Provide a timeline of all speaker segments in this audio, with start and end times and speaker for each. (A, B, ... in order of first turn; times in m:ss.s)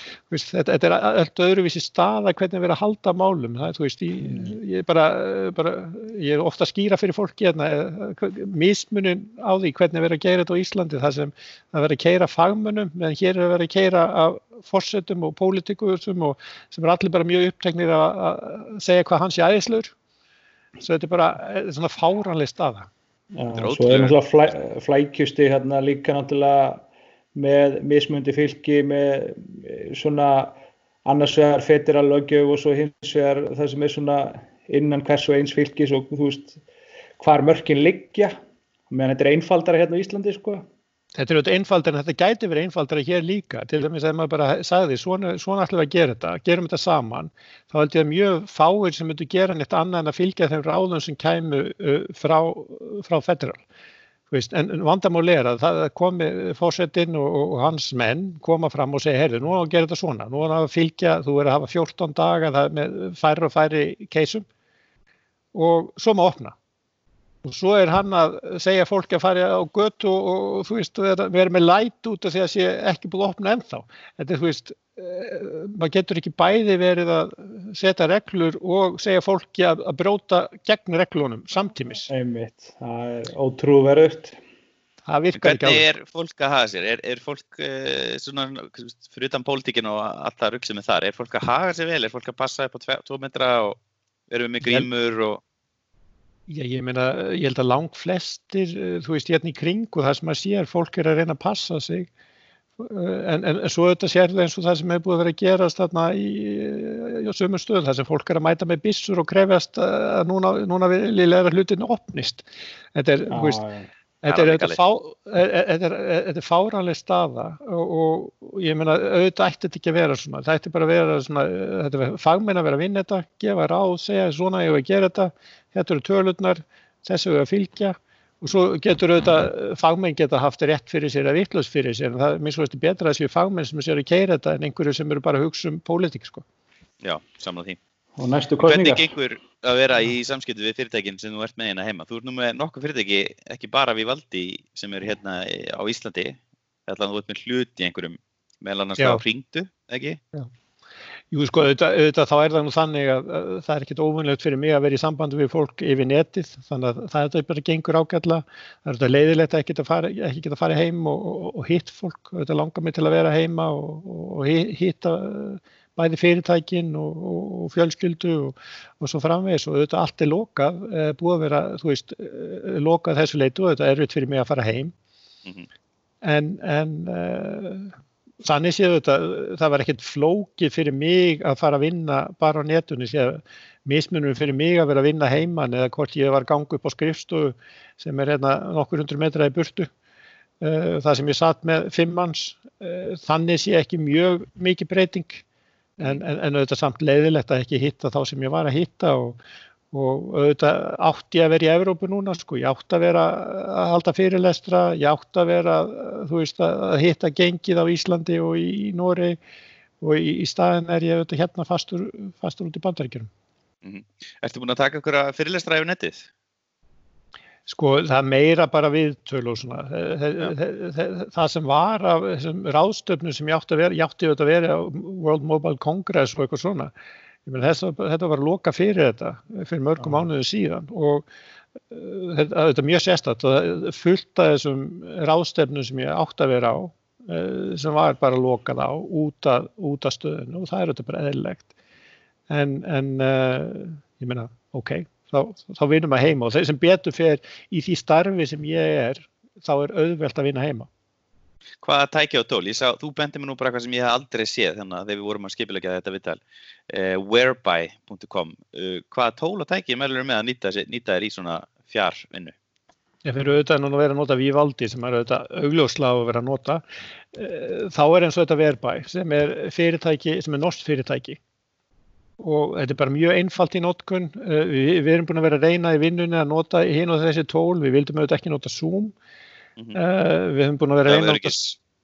0:00.3-0:19.9 A
0:20.8-0:22.9 A
0:23.3-0:36.6 B
0:23.5-0:24.2 C
0:37.2-0:38.3 B
0:38.9-0:40.6 B
0:41.2-0:53.6 A
0:54.3-1:04.4 A
1:05.5-1:06.5 A
1:07.4-1:22.1 A
1:22.1-1:24.4 B
1:25.1-1:25.8 A
1:25.3-1:33.8 C
1:34.3-1:35.4 C
1:36.5-1:42.1 A
1:42.8-1:53.6 A
1:53.3-1:53.9 B
1:54.2-2:16.4 A
1:54.3-1:54.8 C
2:17.0-2:17.8 C
2:18.2-2:19.1 B
2:18.6-2:30.2 C
2:29.0-2:29.2 A
2:31.3-2:54.9 A
2:56.2-3:09.9 A
3:10.6-3:15.4 A
3:16.0-3:19.4 A
3:19.9-3:29.4 A
3:30.0-3:33.3 A
3:33.8-3:36.3 C
3:37.7-3:46.9 A
3:47.4-3:51.2 A
3:51.9-4:01.7 A
4:02.5-4:10.9 A
4:11.8-4:22.5 C
4:23.2-4:26.8 A
4:27.3-4:31.4 A
4:32.4-4:39.1 A
4:39.9-4:41.6 A
4:41.1-4:41.7 C